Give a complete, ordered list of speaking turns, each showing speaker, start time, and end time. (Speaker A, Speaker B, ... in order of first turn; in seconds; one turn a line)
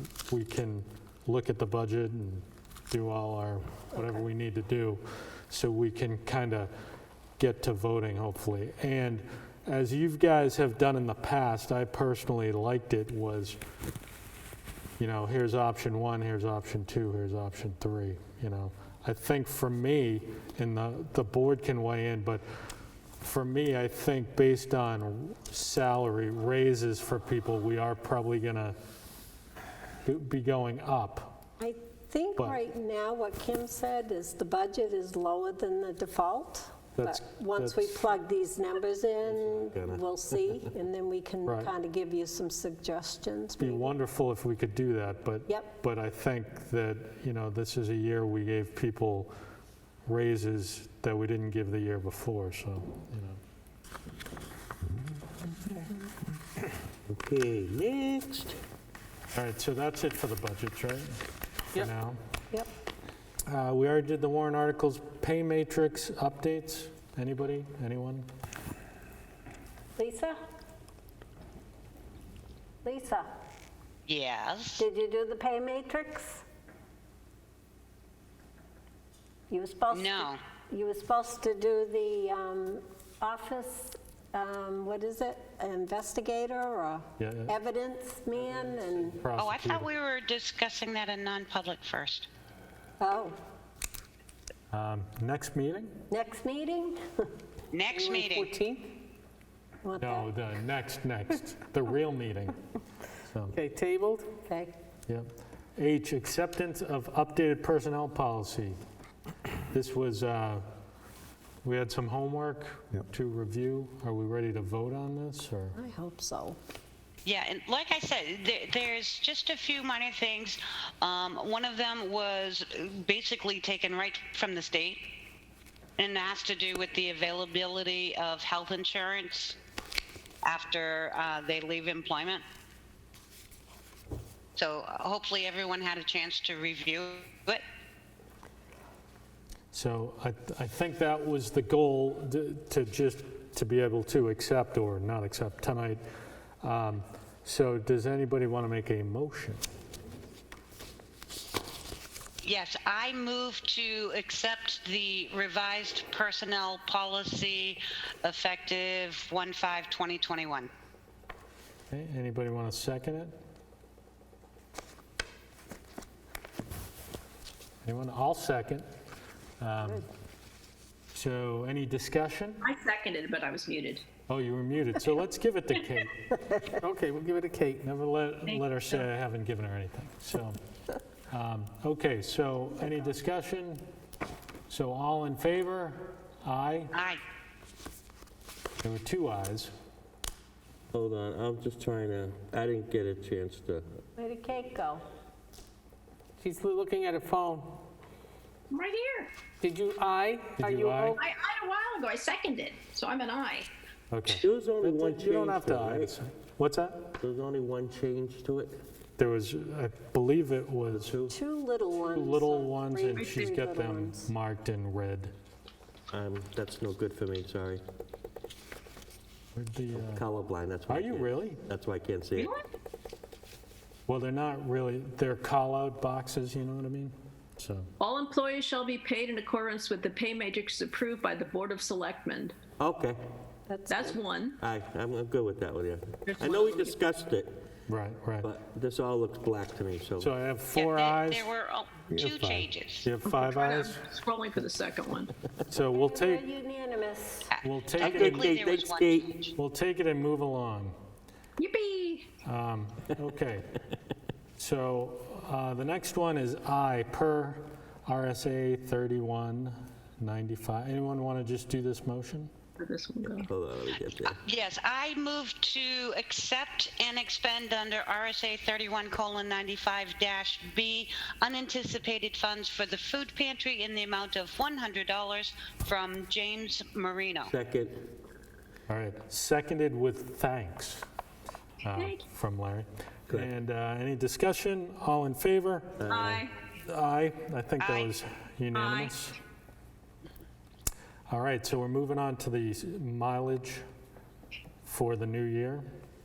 Speaker A: 0.3-6.7
Speaker A: 7.4-13.6
Speaker A: 15.0-22.4
Speaker A: 23.2-28.8
Speaker A: 30.0-31.4
Speaker B: 31.6-44.0
Speaker A: 37.0-38.2
Speaker C: 39.3-40.5
Speaker A: 41.5-41.7
Speaker A: 43.6-49.3
Speaker A: 50.0-53.4
Speaker C: 57.1-58.6
Speaker A: 59.3-61.2
Speaker A: 61.7-62.2
Speaker A: 63.5-68.3
Speaker B: 70.0-70.4
Speaker B: 72.8-73.3
Speaker D: 74.1-74.8
Speaker B: 74.8-76.4
Speaker B: 79.5-89.2
Speaker D: 79.9-80.4
Speaker A: 87.2-87.6
Speaker A: 89.1-89.9
Speaker D: 89.4-92.3
Speaker B: 93.0-93.4
Speaker A: 94.7-96.0
Speaker B: 96.1-97.0
Speaker D: 97.7-98.5
Speaker E: 97.9-98.9
Speaker B: 99.8-100.3
Speaker A: 100.0-102.6
Speaker A: 103.2-103.6
Speaker E: 103.5-104.4
Speaker B: 104.5-104.7
Speaker A: 105.1-108.8
Speaker A: 109.7-110.7
Speaker A: 111.6-115.8
Speaker B: 115.7-116.6
Speaker D: 117.2-125.0
Speaker D: 126.0-129.6
Speaker D: 130.4-132.4
Speaker D: 134.6-137.6
Speaker A: 139.7-146.0
Speaker A: 146.6-149.6
Speaker D: 152.4-160.7
Speaker A: 161.9-163.3
Speaker A: 167.8-168.9
Speaker A: 169.6-170.1
Speaker A: 171.1-172.7
Speaker F: 172.6-174.0
Speaker A: 174.3-176.3
Speaker E: 176.8-177.8
Speaker A: 177.8-180.6
Speaker F: 178.4-179.0
Speaker A: 181.3-183.8
Speaker A: 184.7-186.9
Speaker D: 186.9-187.2
Speaker A: 188.8-189.7
Speaker C: 190.9-193.8
Speaker B: 194.2-195.0
Speaker E: 196.4-197.8
Speaker F: 198.7-199.3
Speaker E: 199.6-201.2
Speaker A: 200.6-201.2
Speaker F: 201.2-203.7
Speaker A: 204.1-207.1
Speaker C: 204.2-206.1
Speaker C: 207.2-208.8
Speaker A: 209.2-211.1
Speaker C: 210.9-211.3
Speaker B: 211.3-214.3
Speaker A: 212.0-215.3
Speaker F: 213.1-213.5
Speaker C: 216.1-217.8
Speaker A: 219.5-220.2
Speaker C: 219.9-222.5
Speaker A: 220.9-221.6
Speaker F: 222.4-222.6
Speaker A: 224.1-227.9
Speaker F: 228.0-232.5
Speaker C: 232.8-233.2
Speaker B: 233.7-234.1
Speaker F: 233.9-234.6
Speaker C: 234.6-237.6
Speaker F: 236.3-236.9
Speaker A: 237.9-238.5
Speaker C: 238.4-240.3
Speaker A: 240.2-241.5
Speaker D: 240.7-243.1
Speaker A: 242.1-244.0
Speaker F: 243.3-245.3
Speaker A: 245.7-246.4
Speaker B: 245.9-247.5
Speaker D: 247.5-249.5
Speaker A: 247.6-248.5
Speaker C: 248.0-249.3
Speaker A: 249.6-250.9
Speaker F: 251.6-252.3
Speaker A: 252.4-253.7
Speaker A: 254.6-262.5
Speaker F: 262.8-263.5
Speaker C: 263.4-264.4
Speaker D: 264.4-277.5
Speaker C: 277.5-278.1
Speaker A: 278.9-281.1
Speaker A: 281.8-286.1
Speaker F: 281.9-282.2
Speaker C: 286.0-286.4
Speaker F: 286.1-286.5
Speaker A: 286.8-289.4
Speaker D: 287.8-288.1
Speaker F: 288.7-289.2
Speaker A: 291.3-293.8
Speaker A: 294.9-295.9